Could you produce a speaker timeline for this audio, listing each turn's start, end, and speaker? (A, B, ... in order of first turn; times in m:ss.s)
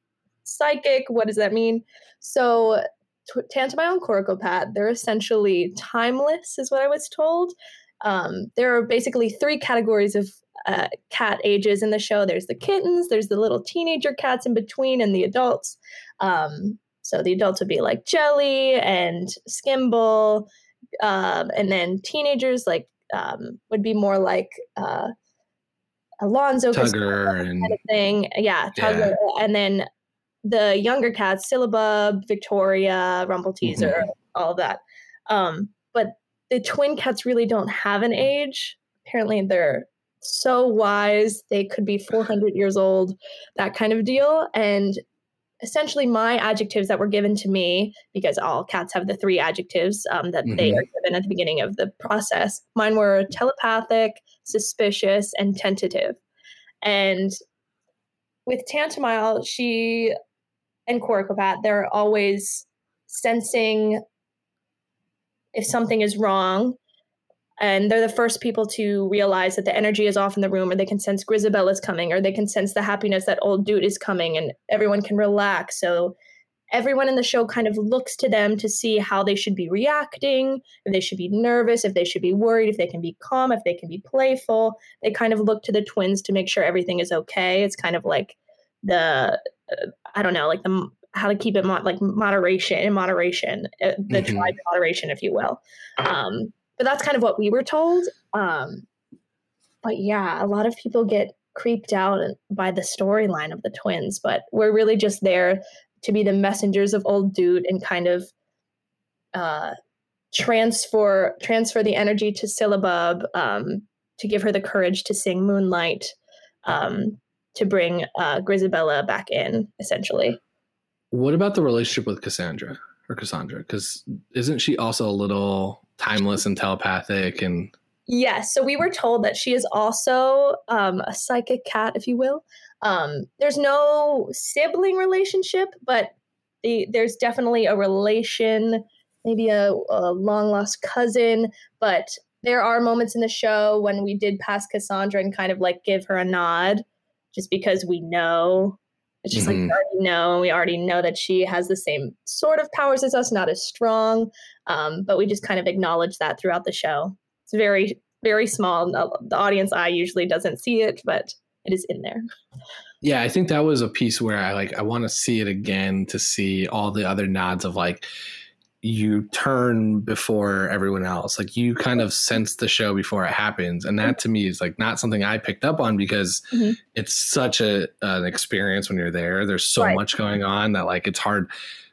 0:00.4-0:20.5 A
0:21.0-0:25.1 A
0:26.2-0:29.8 A
0:26.7-0:27.8 B
0:28.8-0:29.2 B
0:30.4-0:45.0 A
0:33.6-0:34.0 B
0:45.6-0:56.2 A
0:50.4-0:50.8 B
0:56.8-0:57.4 A
0:58.4-1:00.1 A
1:00.9-1:04.0 A
1:05.5-1:06.8 A
1:07.6-1:16.1 A
1:16.7-1:38.8 A
1:34.1-1:34.5 B
1:39.8-1:48.3 A
1:49.3-1:49.7 A
1:50.3-2:00.4 A
2:01.1-2:07.7 B
2:08.1-2:16.1 A
2:16.6-2:42.2 A
2:29.3-2:29.8 B
2:43.0-2:48.1 B
2:48.8-3:01.5 B
2:56.5-2:56.8 A